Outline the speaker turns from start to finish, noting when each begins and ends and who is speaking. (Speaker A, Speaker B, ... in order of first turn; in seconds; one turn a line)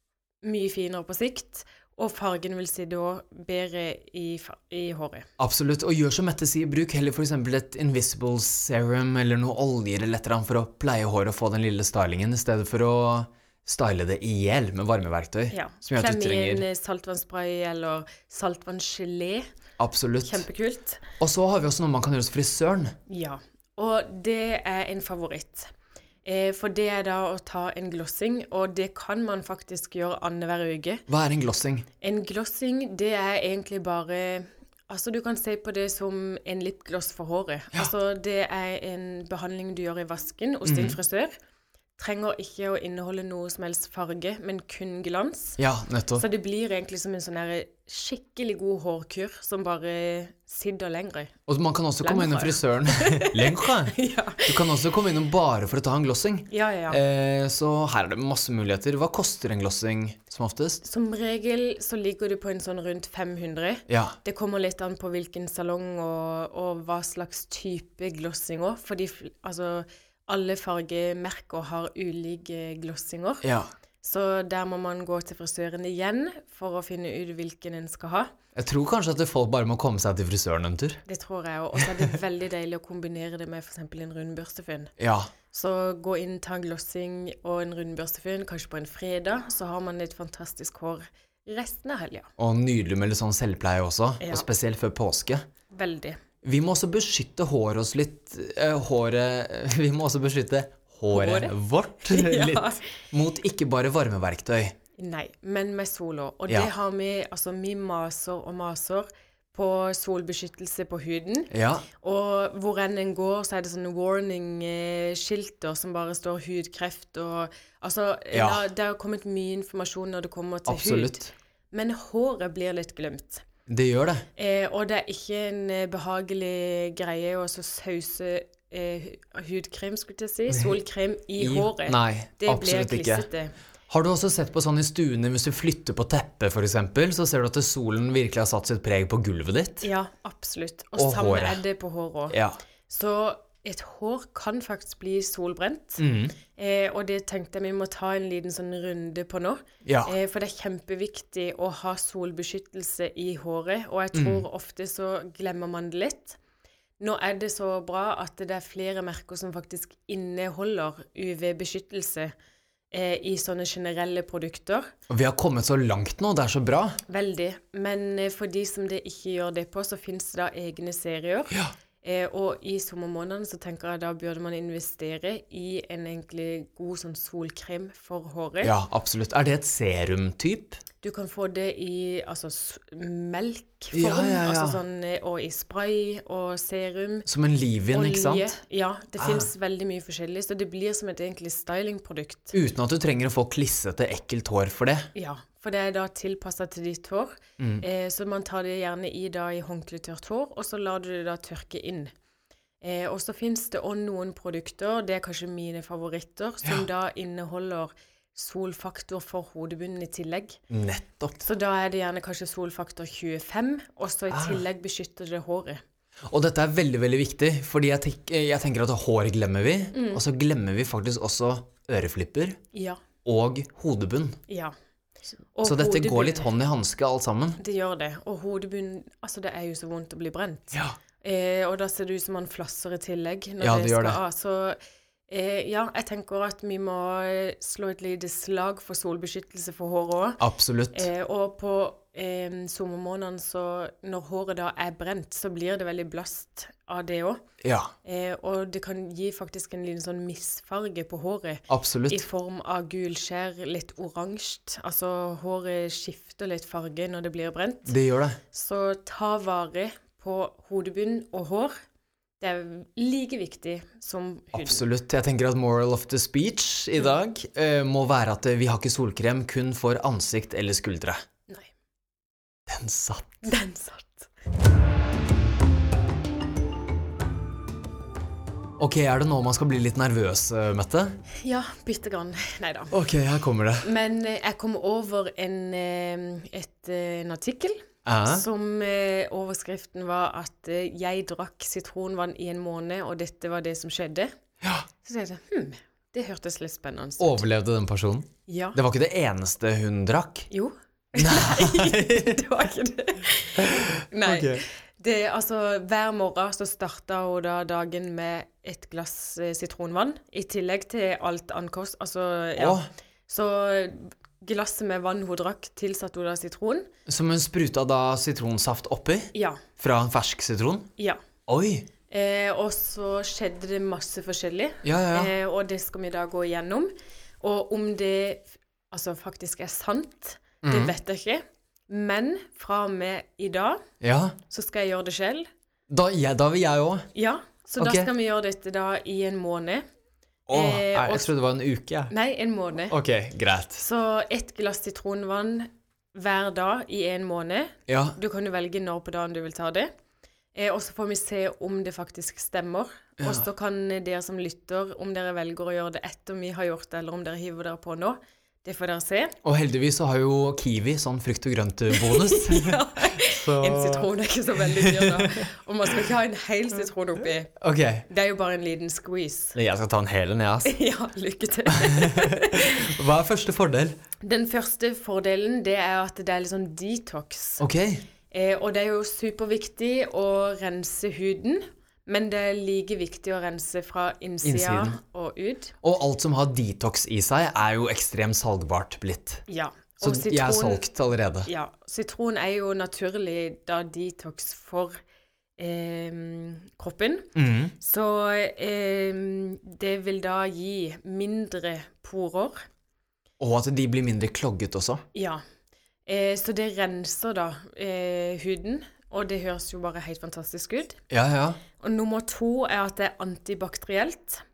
Speaker A: 0.4-5.3
Speaker B: 5.4-16.6
Speaker A: 15.5-19.5
Speaker B: 19.8-20.4
Speaker A: 20.2-21.0
Speaker B: 21.2-23.0
Speaker A: 23.1-25.7
Speaker A: 26.2-31.0
Speaker B: 31.1-31.9
Speaker A: 32.0-41.3
Speaker B: 40.6-41.0
Speaker A: 42.0-45.6
Speaker B: 45.6-46.2
Speaker A: 46.2-51.3
Speaker B: 51.5-54.0
Speaker A: 52.0-54.8
Speaker B: 54.5-60.8
Speaker A: 56.5-57.0
Speaker A: 60.8-73.5
Speaker B: 63.9-64.2
Speaker B: 73.4-73.7
Speaker A: 74.0-78.3
Speaker B: 78.6-81.0
Speaker A: 81.1-84.9
Speaker B: 85.0-85.3
Speaker A: 85.5-92.3
Speaker B: 92.4-95.5
Speaker A: 94.2-94.5
Speaker A: 95.7-96.2
Speaker B: 96.4-104.8
Speaker A: 101.1-102.8
Speaker A: 105.0-121.2
Speaker B: 111.5-111.9
Speaker B: 118.3-118.6
Speaker B: 120.7-121.3
Speaker A: 121.7-123.5
Speaker B: 123.7-124.3
Speaker A: 124.4-133.5
Speaker B: 130.5-130.8
Speaker B: 131.4-133.3
Speaker B: 133.9-139.9
Speaker A: 139.8-142.4
Speaker B: 141.0-141.6
Speaker B: 142.3-142.6
Speaker A: 142.9-156.4
Speaker B: 146.0-146.4
Speaker B: 149.8-150.1
Speaker B: 154.1-154.4
Speaker A: 157.0-162.3
Speaker A: 162.9-164.9
Speaker B: 165.1-167.0
Speaker A: 167.1-178.8
Speaker B: 178.6-180.8
Speaker A: 181.0-187.3
Speaker B: 183.9-184.8
Speaker B: 187.3-188.5
Speaker A: 187.9-192.6
Speaker B: 189.2-189.5
Speaker B: 192.5-195.1
Speaker A: 195.2-202.1
Speaker B: 197.6-197.8
Speaker A: 202.8-210.6
Speaker B: 210.7-211.4
Speaker A: 211.4-215.8
Speaker B: 214.3-214.6
Speaker B: 216.3-222.6
Speaker A: 219.9-220.2
Speaker A: 222.7-223.0
Speaker B: 223.2-224.4
Speaker A: 224.5-224.7
Speaker A: 225.6-226.5
Speaker B: 225.6-227.6
Speaker A: 227.6-234.8
Speaker B: 233.6-234.2
Speaker A: 235.3-240.4
Speaker B: 240.4-241.1
Speaker A: 240.9-247.4
Speaker B: 247.6-247.9
Speaker A: 248.0-257.9
Speaker B: 251.7-252.2
Speaker B: 257.9-258.4
Speaker A: 258.5-261.7
Speaker A: 262.4-264.8
Speaker B: 264.5-271.2
Speaker B: 272.7-273.5
Speaker A: 273.4-274.3
Speaker B: 278.8-281.2
Speaker A: 281.4-283.0
Speaker B: 282.9-283.9
Speaker A: 283.8-294.3
Speaker B: 288.1-288.4
Speaker A: 295.0-297.4
Speaker B: 297.2-300.5
Speaker A: 298.5-298.8
Speaker A: 300.5-316.9
Speaker B: 301.2-302.4
Speaker B: 303.6-304.6
Speaker B: 312.6-312.9
Speaker B: 317.1-320.9
Speaker A: 319.3-319.6
Speaker B: 321.5-321.9
Speaker A: 322.1-333.8
Speaker B: 324.8-325.3
Speaker B: 330.6-330.9
Speaker B: 334.0-334.4
Speaker A: 334.4-335.5
Speaker B: 335.9-337.1
Speaker A: 337.1-339.8
Speaker B: 337.8-338.1
Speaker B: 340.5-342.1
Speaker A: 340.5-341.3
Speaker A: 342.1-342.9
Speaker B: 342.9-343.8
Speaker A: 343.8-349.9
Speaker B: 347.9-348.2
Speaker A: 350.5-359.4
Speaker B: 353.2-353.4
Speaker B: 359.4-365.5
Speaker A: 361.9-367.5
Speaker B: 367.6-368.1
Speaker A: 368.1-369.6
Speaker B: 369.5-370.7
Speaker A: 370.6-373.0
Speaker B: 371.7-374.0
Speaker A: 374.2-377.6
Speaker B: 377.6-378.0
Speaker A: 378.3-385.7
Speaker B: 384.4-385.0
Speaker B: 385.8-389.4
Speaker A: 389.5-390.9
Speaker B: 390.0-391.5
Speaker A: 391.5-395.0
Speaker A: 395.6-402.7
Speaker B: 397.4-397.7
Speaker B: 403.4-405.0
Speaker A: 405.1-405.4
Speaker A: 406.1-411.0
Speaker B: 411.1-411.6
Speaker A: 411.8-414.4